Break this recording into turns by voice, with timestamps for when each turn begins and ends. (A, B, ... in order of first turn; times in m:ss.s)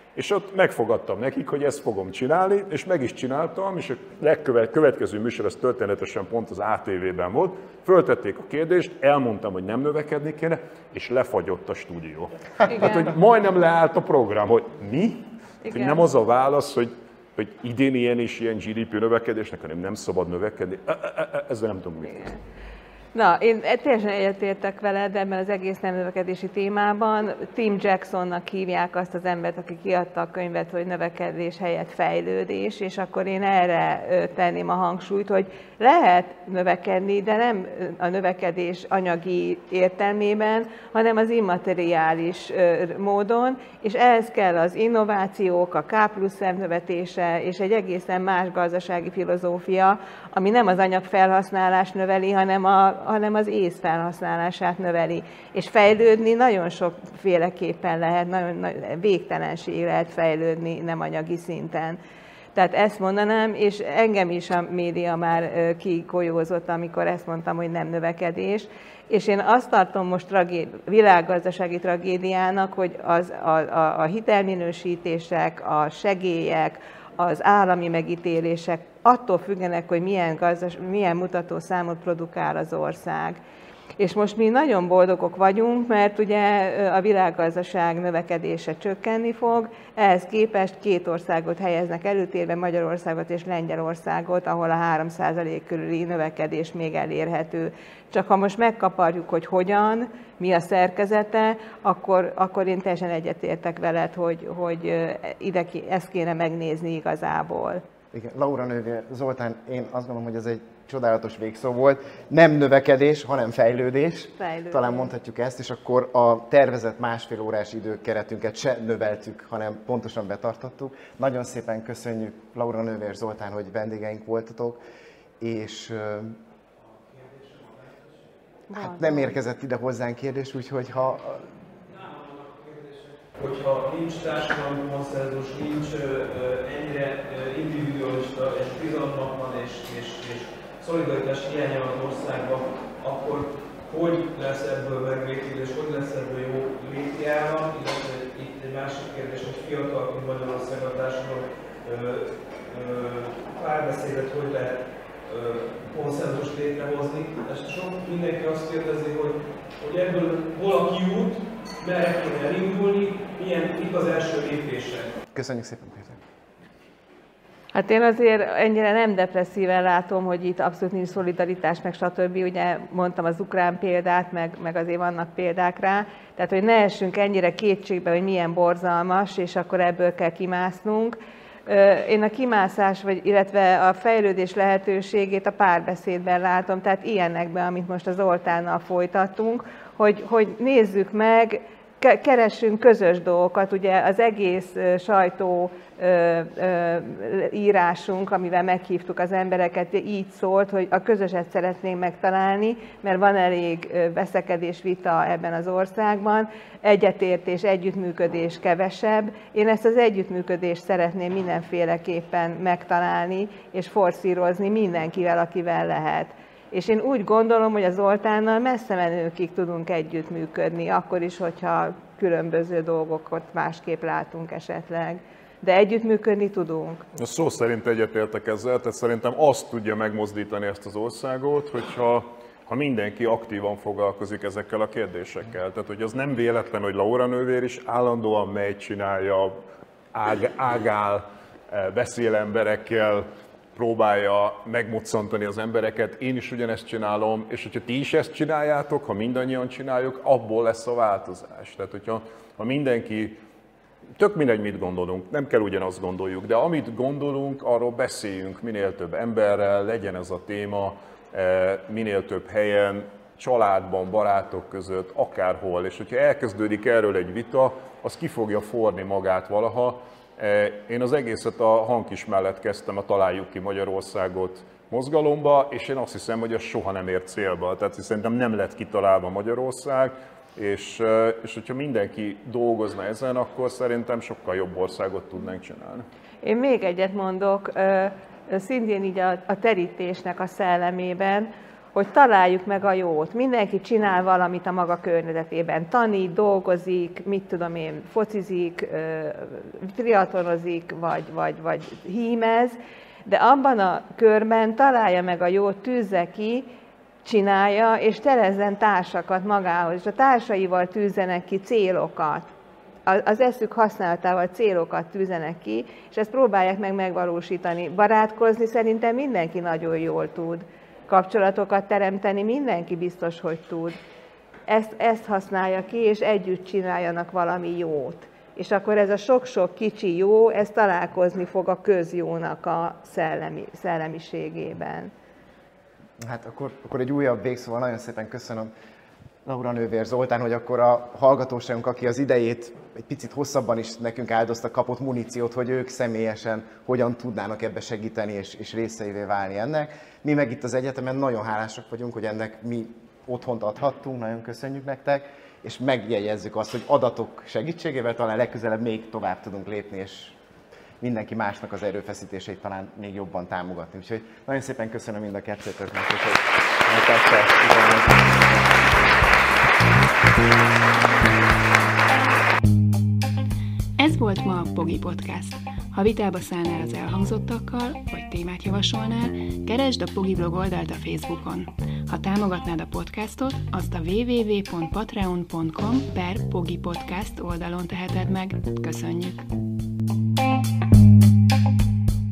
0:00.1-0:22.3 A
0:12.7-0:13.0 B
0:15.6-0:16.0 B
0:23.1-1:02.0 B
1:02.6-1:23.4 B
1:24.0-1:47.8 B
1:48.1-2:04.8 C
1:54.4-1:55.1 B
2:05.4-2:06.4 C
2:07.1-2:07.8 D
2:08.7-2:09.4 B
2:08.7-2:11.5 C
2:11.9-2:45.1 D
2:45.3-2:46.2 C
2:47.7-3:47.0 B
3:47.1-3:59.6 A
4:00.1-4:13.4 A
4:14.2-4:46.1 A
4:46.4-5:06.7 B
5:07.2-5:12.5 B
5:13.0-5:24.0 B
5:24.7-5:35.1 B
5:36.2-5:38.7 C
5:39.4-6:00.4 C
6:01.0-6:09.0 C
6:14.0-6:29.4 E